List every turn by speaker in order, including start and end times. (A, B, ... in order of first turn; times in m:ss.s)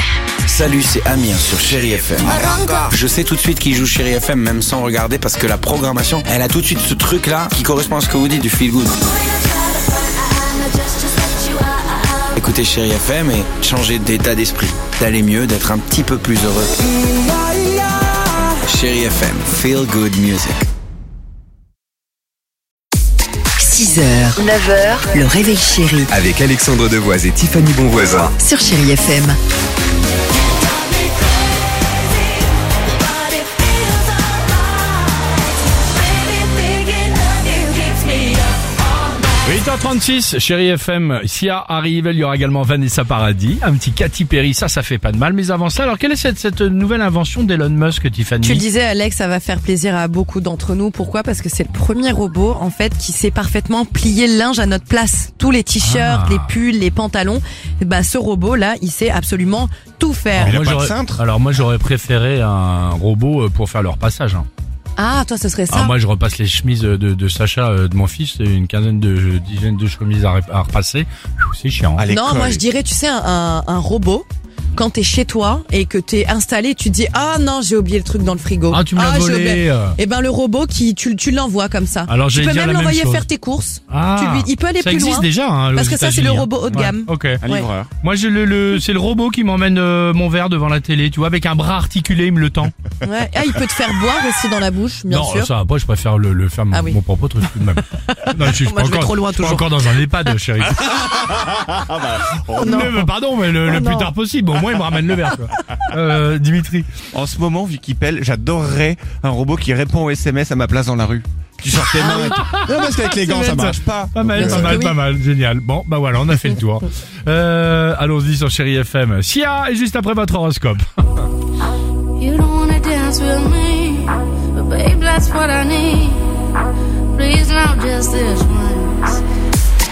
0:00.5-0:09.0 A
0:12.3-0:16.7 A
0:18.6-0:20.7 A
0:23.6-0:24.5 B
0:25.1-0:26.1 B
0:26.1-0:28.3 C
0:28.4-0:29.4 B
0:36.1-0:38.4 D
0:39.4-0:48.6 E
0:48.4-1:00.6 F
0:55.8-0:56.5 E
1:00.4-1:01.2 G
1:00.4-1:04.5 E
1:05.0-1:06.0 F
1:05.7-1:12.0 E
1:12.0-1:12.6 G
1:12.1-1:27.7 F
1:18.7-1:20.0 E
1:22.1-1:23.3 E
1:23.9-1:27.4 E
1:27.4-1:27.9 G
1:28.0-1:32.7 E
1:33.0-1:35.5 F
1:35.1-1:41.5 E
1:36.7-1:37.0 F
1:38.0-1:39.8 F
1:41.3-1:42.7 G
1:42.5-1:46.9 E
1:42.6-1:43.1 F
1:43.6-1:44.1 F
1:47.1-1:54.8 G
1:52.0-2:00.9 E
1:52.0-1:52.4 F
1:54.4-1:54.9 F
2:02.2-2:06.5 D
2:07.1-2:09.2 D